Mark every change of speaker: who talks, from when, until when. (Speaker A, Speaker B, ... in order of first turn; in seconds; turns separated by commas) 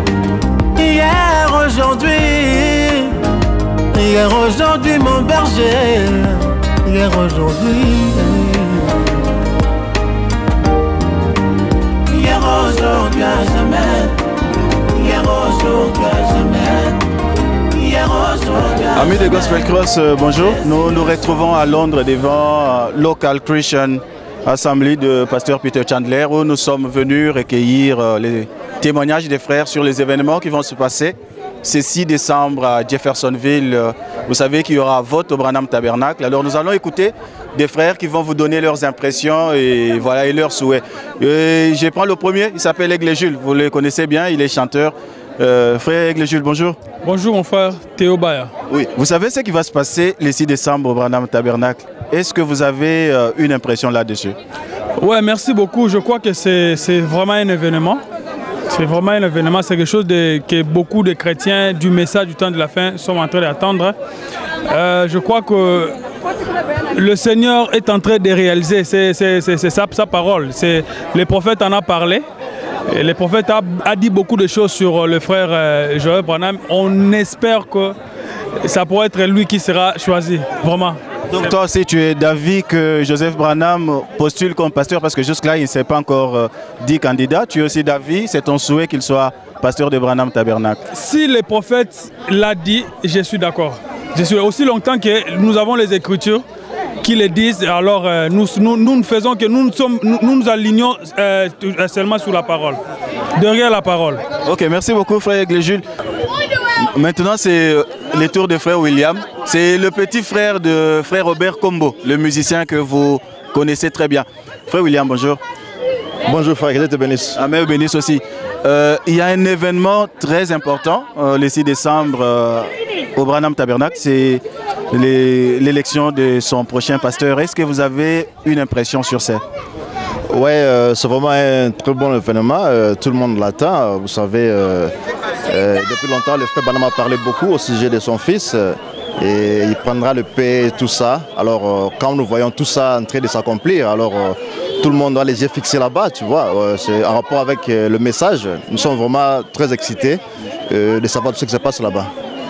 Speaker A: 0.8-3.2, Speaker A: 3.9-9.0, Speaker A: 12.1-14.2, Speaker A: 14.9-17.0, Speaker A: 17.7-19.1, Speaker B: 18.9-46.8, Speaker C: 47.0-48.5, Speaker B: 48.7-54.4, Speaker C: 55.0-58.0, Speaker C: 58.7-64.0, Speaker C: 64.7-66.0, Speaker C: 66.9-72.2, Speaker C: 72.9-78.0, Speaker C: 78.6-81.0, Speaker B: 81.3-90.8, Speaker C: 90.9-96.4, Speaker C: 97.0-102.8, Speaker C: 103.4-104.2, Speaker B: 104.4-105.8, Speaker B: 106.8-115.4, Speaker D: 116.3-117.4, Speaker B: 117.3-129.4, Speaker D: 130.3-134.9, Speaker D: 135.5-152.1